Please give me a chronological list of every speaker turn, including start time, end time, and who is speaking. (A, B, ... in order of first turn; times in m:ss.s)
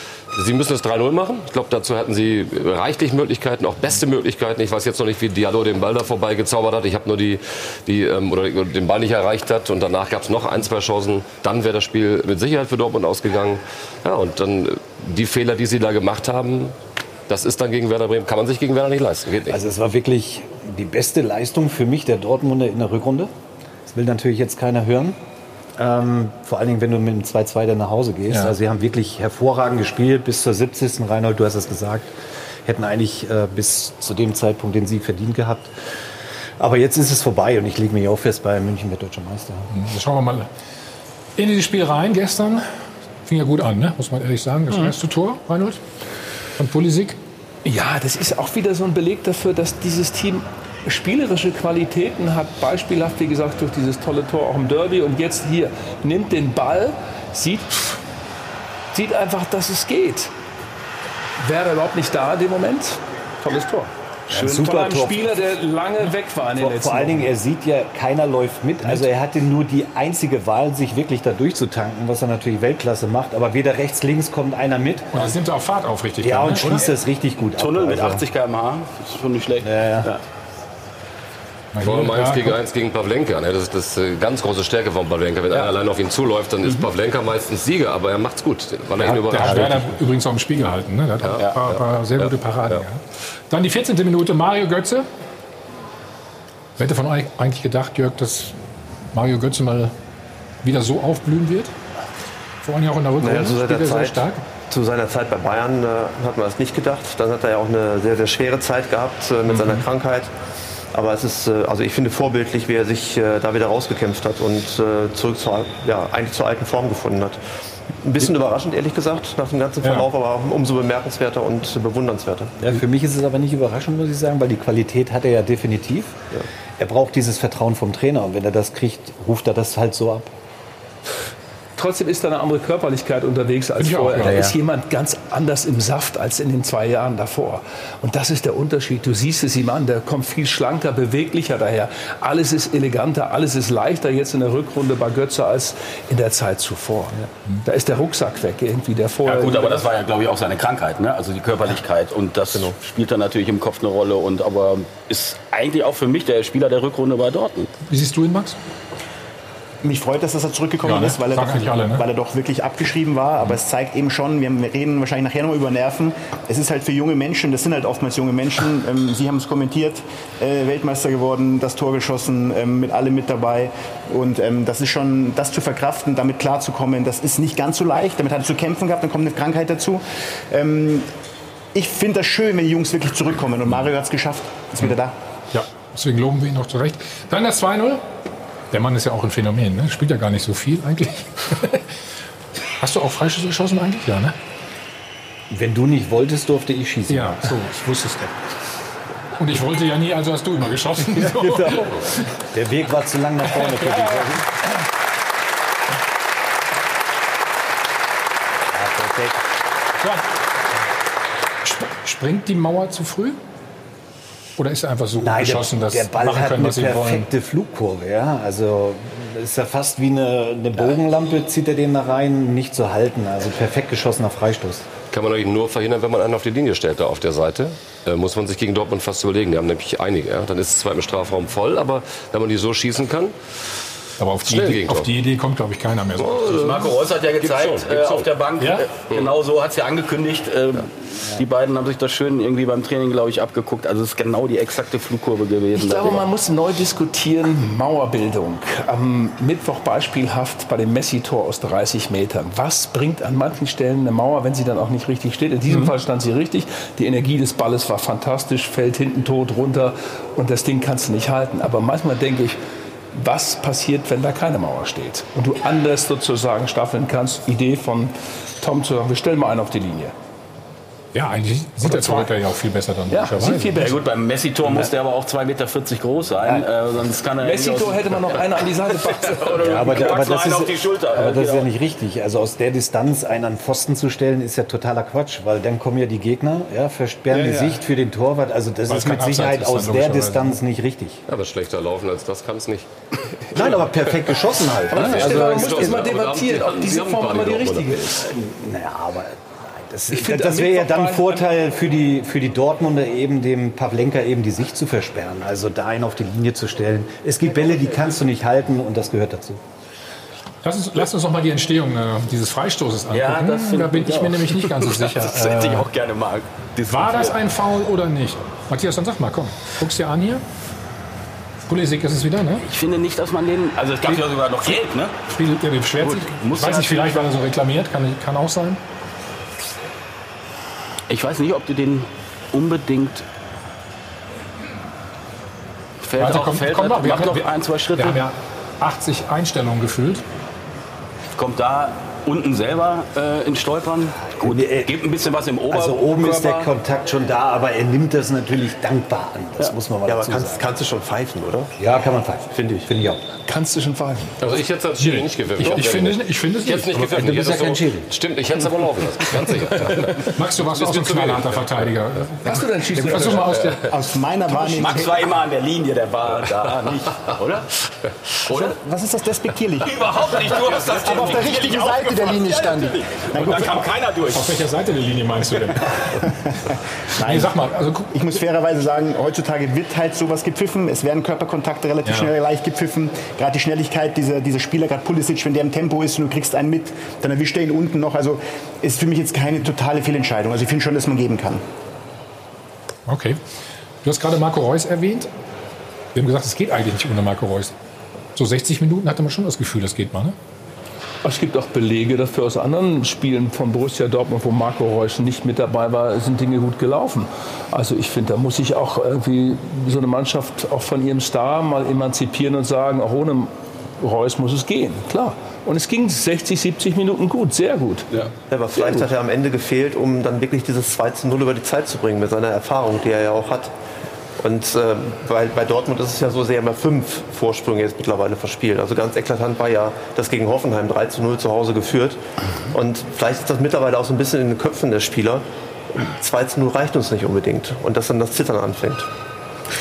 0:00.3-0:16.8 A
0:17.3-0:19.6 A
0:19.5-0:23.3 B
0:23.9-0:25.2 B
0:25.8-0:32.1 B
0:32.6-0:35.7 B
0:36.6-0:39.7 B
0:39.7-0:40.5 C
0:41.4-0:42.6 C
0:43.2-0:45.8 C
0:46.6-0:47.2 C
0:47.6-0:58.0 D
0:58.9-1:00.3 D
1:01.4-1:07.3 D
1:04.3-1:05.4 B
1:06.6-1:15.3 B
1:15.1-1:16.8 C
1:16.2-1:18.2 B
1:17.6-1:20.2 E
1:19.6-1:20.1 B
1:21.7-1:22.6 C
1:21.8-1:29.9 A
1:29.0-1:35.1 C
1:31.2-1:32.8 A
1:36.8-1:38.6 C
1:39.1-1:39.9 C
1:40.6-1:41.8 C
1:42.6-1:44.4 C
1:43.2-1:50.3 F
1:49.5-1:49.8 C
1:50.9-1:57.4 F
1:58.0-2:02.6 F
1:59.8-2:00.1 C
2:02.6-2:06.2 B
2:06.8-2:10.3 B
2:11.8-2:29.9 D
2:13.8-2:14.5 C
2:29.2-2:37.7 E
2:37.9-2:38.6 C
2:39.8-3:01.1 G
2:40.8-2:42.0 C
3:01.7-3:05.1 G
3:05.5-3:08.0 C
3:08.7-3:11.8 C
3:12.8-3:14.4 C
3:15.5-3:17.5 B
3:17.1-3:18.3 C
3:19.4-3:22.0 C
3:21.1-3:24.4 B
3:23.5-3:24.3 C
3:28.7-3:29.4 B
3:31.6-3:33.4 C
3:34.6-3:37.3 C
3:35.2-3:44.9 B
3:45.1-3:53.4 A
3:54.2-3:56.9 C
3:54.5-3:55.1 A
3:56.2-3:58.3 A
3:56.6-4:06.2 E
3:58.6-3:58.9 C
4:05.8-4:22.6 D
4:23.1-4:30.1 D
4:31.1-4:33.9 C
4:31.8-4:32.3 D
4:33.1-4:34.0 D
4:33.8-4:38.5 E
4:37.4-4:39.9 D
4:39.1-4:41.7 E
4:39.6-4:51.2 B
4:47.3-4:47.8 D
4:48.9-4:50.6 C
4:51.3-4:52.9 A
4:53.5-4:55.8 B
4:54.9-4:58.3 D
4:54.9-4:58.0 A
4:58.2-5:09.6 B
5:00.1-5:01.5 D
5:10.6-5:15.9 C
5:13.1-5:17.4 E
5:16.9-5:20.4 C
5:21.7-5:22.6 C
5:22.6-5:25.1 E
5:24.1-5:24.7 C
5:25.3-5:28.8 C
5:26.0-5:27.2 E
5:31.1-5:33.2 E
5:36.0-5:38.2 E
5:36.2-5:40.2 C
5:41.4-5:46.7 E
5:44.3-5:45.0 B
5:45.7-5:50.7 B
5:50.1-5:51.7 F
5:51.8-5:53.2 B
5:52.5-5:52.9 F
5:53.4-5:54.3 D
5:54.4-6:01.9 A
5:55.0-5:57.6 C
5:57.1-5:58.1 B
6:00.3-6:03.8 C
6:02.4-6:03.7 D
6:03.9-6:05.2 G
6:04.6-6:07.7 E
6:08.5-6:08.8 E
6:08.5-6:13.9 G
6:09.8-6:14.6 E
6:10.6-6:11.2 A
6:13.4-6:16.0 C
6:16.2-6:31.6 G
6:17.2-6:18.2 C
6:22.0-6:22.3 C
6:33.1-6:33.4 C
6:34.0-6:35.3 C
6:36.2-6:37.8 C
6:38.4-6:40.4 C
6:41.2-6:58.1 D
6:58.5-7:03.7 F
7:04.4-7:12.2 F
7:12.7-7:15.4 F
7:16.2-7:19.1 F